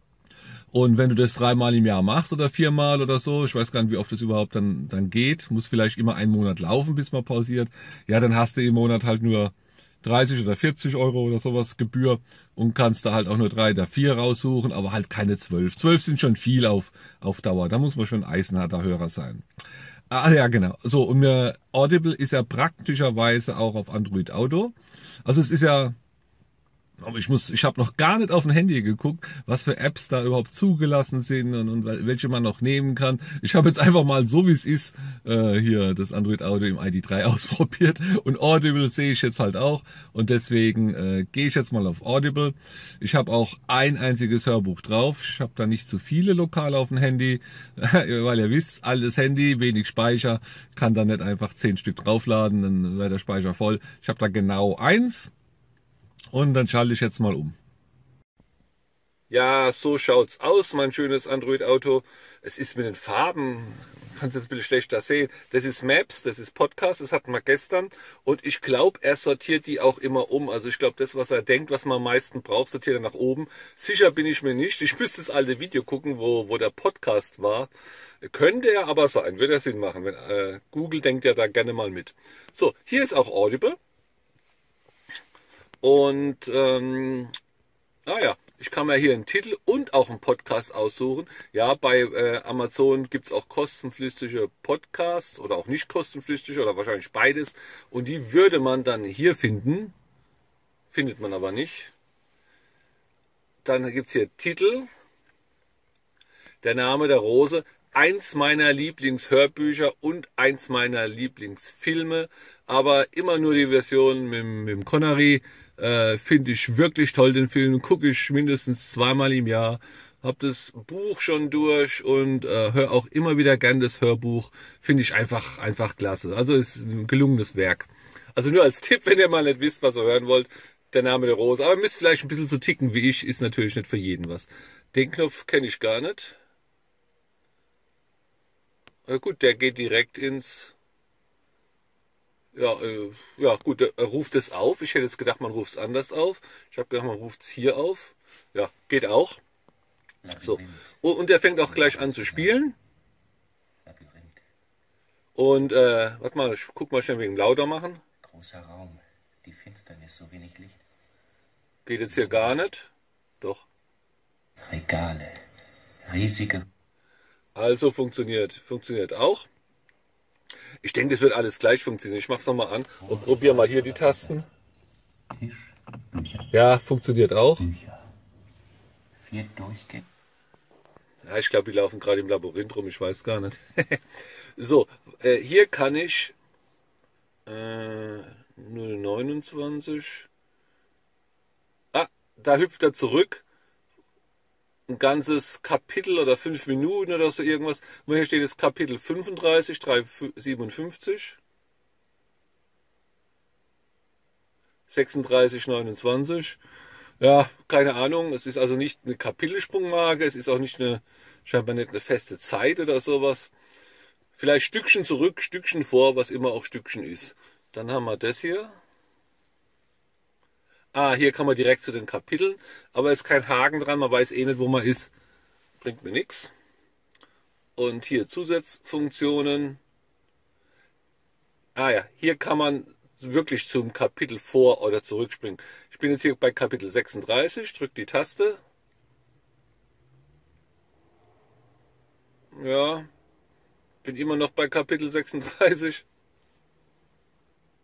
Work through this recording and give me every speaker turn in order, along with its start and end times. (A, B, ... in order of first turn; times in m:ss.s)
0:00.7-0:19.4 A
0:20.1-0:24.7 A
0:25.2-0:25.9 A
0:27.0-0:55.3 A
0:56.3-0:57.6 A
0:59.3-1:17.7 A
1:18.2-1:23.8 A
1:25.8-1:27.3 A
1:28.0-1:39.9 A
1:40.9-1:41.9 A
1:43.6-1:44.9 A
1:46.6-2:16.4 A
2:19.1-2:20.7 A
2:22.5-2:29.4 A
2:30.2-2:30.8 B
2:30.4-2:32.7 A
2:31.4-2:32.6 B
2:33.8-2:34.4 B
2:35.4-2:38.0 A
2:38.2-2:40.8 B
2:41.8-2:43.7 A
2:44.6-2:45.4 B
2:46.0-2:46.7 B
2:47.5-2:49.5 A
2:50.8-2:54.4 A
2:53.0-2:54.4 B
2:55.3-2:56.5 B
2:56.5-2:57.7 A
2:57.6-2:58.1 B
2:59.2-3:00.1 B
3:01.2-3:04.0 A
3:04.6-3:06.3 A
3:07.4-3:10.3 A
3:11.9-3:13.4 A
3:14.9-3:21.4 A
3:24.9-3:26.6 A
3:27.2-3:33.5 A
3:34.4-3:38.8 A
3:40.9-3:45.1 A
3:45.8-3:46.5 A
3:47.8-3:49.8 A
3:51.8-3:58.6 A
4:02.5-4:03.1 A
4:04.0-4:06.0 A